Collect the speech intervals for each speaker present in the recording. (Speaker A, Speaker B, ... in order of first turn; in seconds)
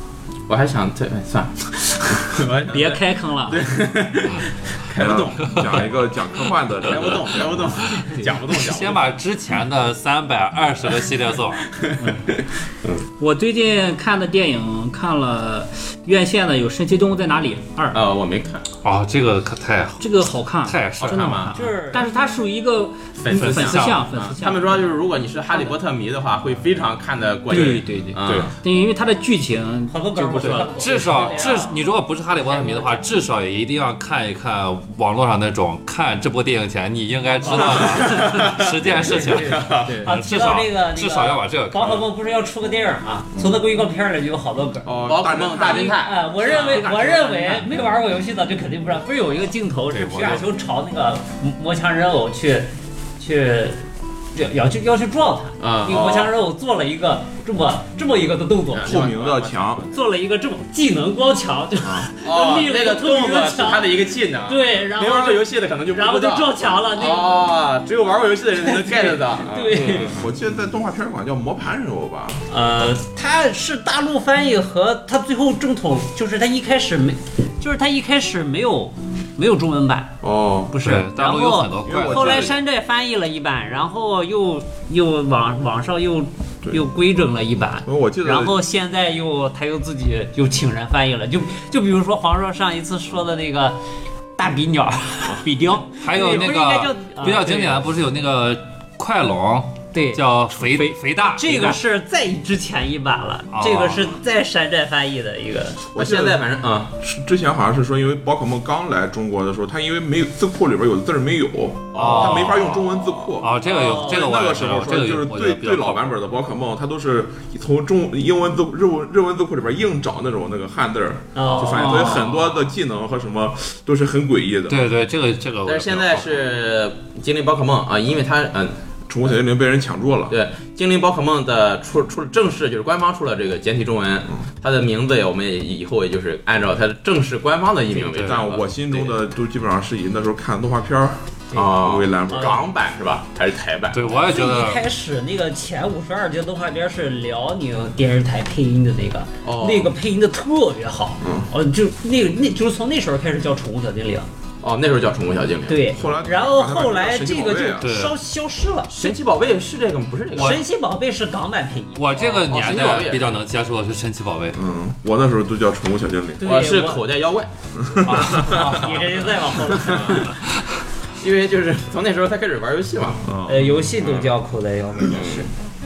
Speaker A: 0.5-5.7, 6.8-9.1, 11.8-13.0, 17.9-18.7, 21.0-21.6, 23.2-28.5, 37.5-40.0, 45.0-46.9, 55.6-56.3, 58.7-59.8, 62.2-70.2, 105.9-106.9, 111.9-113.2, 125.6-128.8, 130.3-139.2, 141.5-144.2, 149.4-149.9, 154.6-156.0, 158.9-160.6, 162.1-163.4, 166.4-167.5, 169.9-170.2, 171.2-173.3, 174.0-174.3, 175.1-175.4
Speaker B: 2.7-3.6, 12.0-12.2, 13.2-18.0, 20.0-24.8, 27.5-31.3, 39.8-40.1, 46.4-47.7, 99.9-101.0, 121.7-122.2
Speaker C: 4.9-7.8, 43.3-43.6, 44.8-46.0, 58.8-59.9, 69.7-72.4, 80.2-80.7, 81.8-82.6, 87.8-88.6, 105.9-106.4, 107.0-124.8, 129.1-130.3, 138.2-142.6, 151.2-151.5, 155.9-157.9, 164.5-166.6, 167.8-168.7, 173.2-173.7
Speaker D: 8.6-11.7, 18.8-20.1, 20.6-21.5, 23.3-24.1, 28.2-28.5, 30.4-42.0, 49.9-50.5, 80.8-82.5, 95.9-101.8, 103.5-104.1, 112.0-112.7, 113.4-116.1, 124.7-126.3, 138.0-138.4, 143.9-144.8, 157.8-158.2, 160.3-160.6, 161.9-164.6, 168.0-169.2
Speaker E: 21.5-22.1, 29.9-33.1, 37.9-59.0, 59.9-67.6, 68.6-70.1, 72.5-80.2, 80.7-93.8, 94.3-97.8, 101.3-105.8, 113.6-114.2, 121.3-122.2, 144.3-154.3, 155.7-159.1, 160.3-162.1, 166.4-167.0, 168.2-170.3, 173.4-175.5